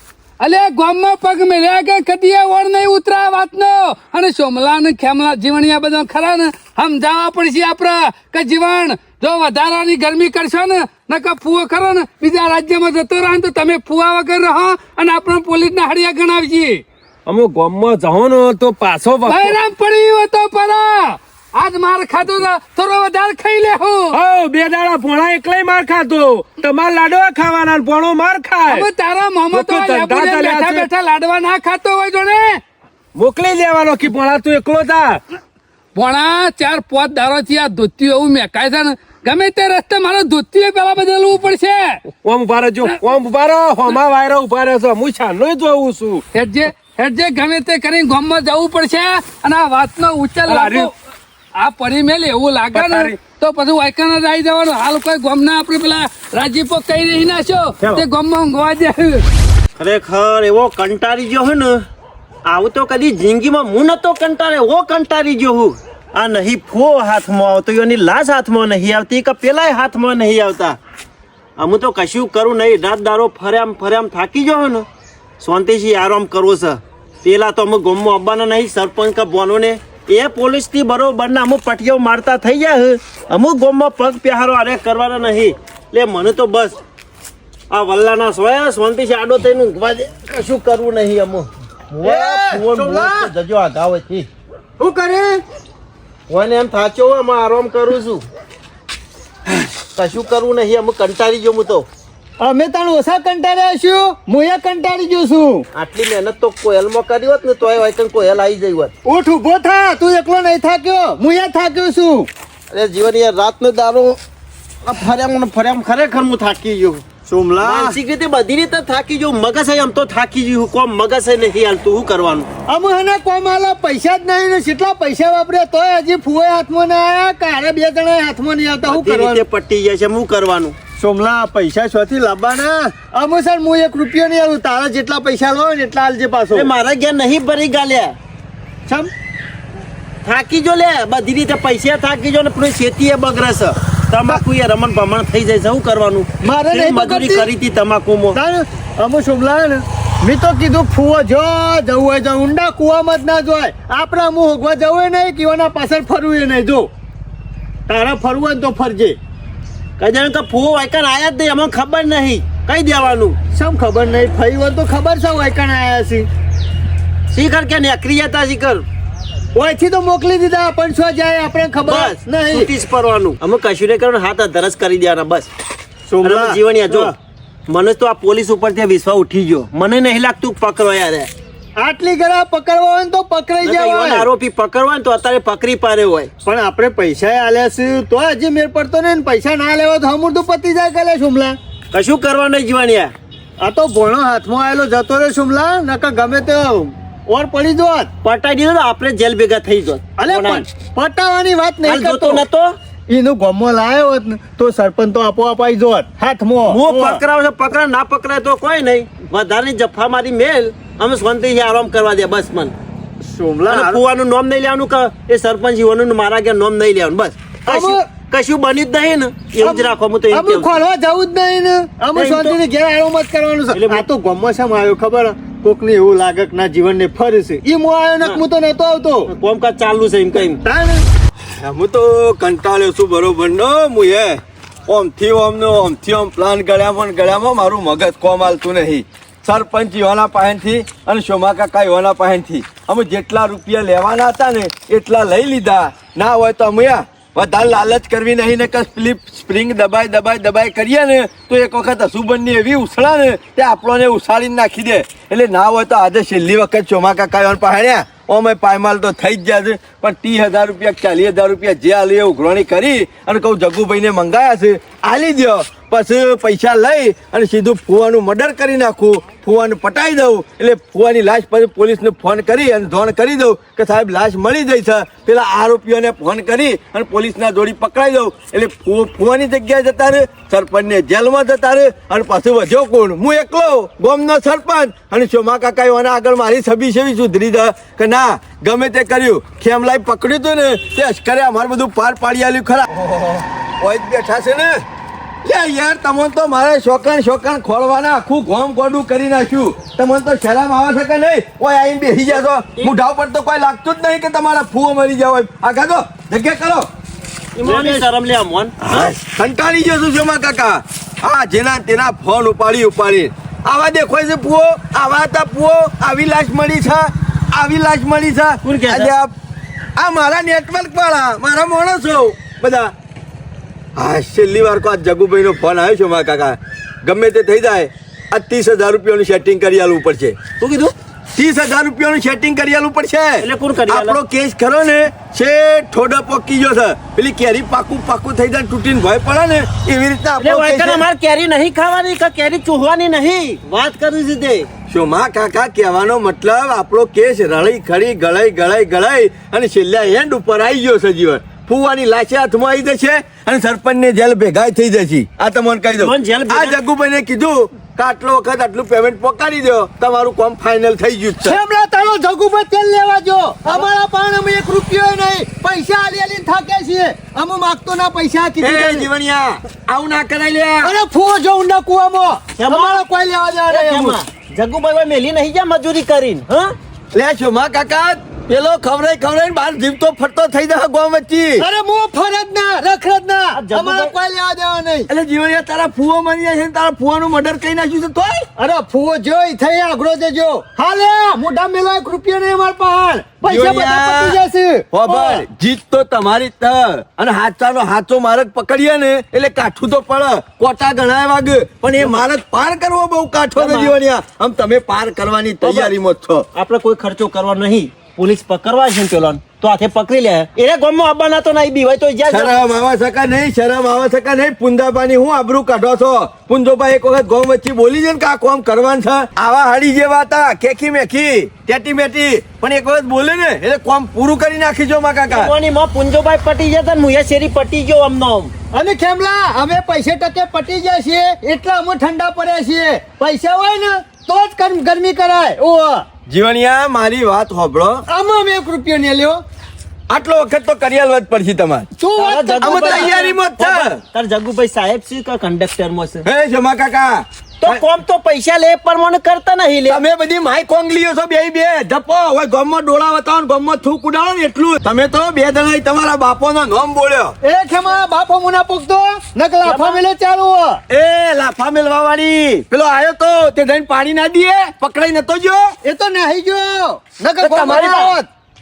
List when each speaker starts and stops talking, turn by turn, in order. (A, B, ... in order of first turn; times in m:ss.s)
0:00.4-0:16.8 A
0:17.2-0:19.6 B
0:19.2-0:24.2 A
0:24.1-0:28.9 B
0:28.7-0:32.6 A
0:29.5-0:30.9 B
0:33.2-0:35.2 B
0:36.0-0:42.0 A
0:42.2-0:46.2 B
0:46.3-0:50.9 A
0:50.5-0:50.9 B
0:51.6-0:59.2 A
0:52.7-0:53.2 B
0:59.8-1:01.8 C
1:02.5-1:10.8 C
1:11.6-1:14.9 C
1:15.4-1:26.8 C
1:27.7-1:34.3 C
1:32.0-1:33.3 D
1:34.8-1:35.4 D
1:36.3-1:38.2 C
1:39.9-1:41.9 C
1:42.4-1:45.7 D
1:45.7-1:48.9 C
1:49.0-1:52.3 D
1:52.7-1:54.2 C
1:54.8-1:57.0 C
1:57.2-1:58.0 D
1:57.6-2:02.5 C
2:02.7-2:09.4 D
2:08.8-2:10.8 C
2:11.0-2:16.7 D
2:16.5-2:18.2 C
2:20.2-2:28.4 C
2:26.4-2:27.5 D
2:28.4-2:36.9 D
2:37.9-2:39.2 D
2:40.0-2:43.4 C
2:43.5-2:46.3 D
2:47.3-2:48.9 C
2:49.6-2:52.7 D
2:51.9-2:55.5 C
2:56.1-2:57.1 D
2:56.2-2:57.1 C
2:57.7-3:01.3 C
3:01.8-3:04.3 D
3:03.6-3:06.3 C
3:06.4-3:11.6 D
3:11.9-3:13.1 C
3:13.6-3:18.1 D
3:18.2-3:20.6 C
3:20.2-3:22.4 D
3:21.8-3:22.8 C
3:23.1-3:27.2 D
3:26.7-3:32.8 C
3:33.2-3:34.0 D
3:33.7-3:40.8 C
3:37.7-3:38.0 D
3:39.6-3:49.3 D
3:42.1-3:42.6 C
3:43.7-3:44.0 C
3:49.3-3:50.6 C
3:50.5-3:51.0 D
3:51.5-4:54.8 E
4:55.4-5:06.9 E
5:07.6-5:09.1 C
5:07.6-5:08.1 D
5:08.8-5:19.3 E
5:18.6-5:19.1 C
5:20.0-5:22.9 E
5:24.0-5:30.4 E
5:30.6-5:30.9 C
5:31.4-5:41.0 E
5:33.4-5:34.2 C
5:40.4-5:44.7 C
5:44.9-6:01.6 E
5:56.0-5:56.8 C
6:01.4-6:09.1 D
6:08.6-6:11.0 E
6:10.8-6:14.2 D
6:12.6-6:13.0 C
6:13.7-6:16.8 C
6:17.1-6:21.7 E
6:21.6-6:25.1 D
6:23.5-6:24.1 C
6:25.1-6:28.5 E
6:28.6-6:35.4 D
6:33.5-6:34.4 E
6:34.9-6:46.5 E
6:43.6-6:43.9 C
6:45.6-6:45.9 C
6:46.5-6:52.6 C
6:52.3-7:05.5 E
7:05.3-7:08.5 C
7:08.7-7:16.1 D
7:16.3-7:18.0 E
7:18.1-7:19.4 D
7:20.1-7:21.9 E
7:22.0-7:23.2 D
7:22.2-7:26.2 C
7:22.6-7:24.0 E
7:26.2-7:27.8 E
7:27.6-7:30.0 C
7:29.9-7:37.4 E
7:37.4-7:40.8 D
7:39.6-7:40.0 C
7:40.9-7:45.7 E
7:45.8-7:48.3 D
7:47.4-7:48.1 C
7:47.4-7:48.1 E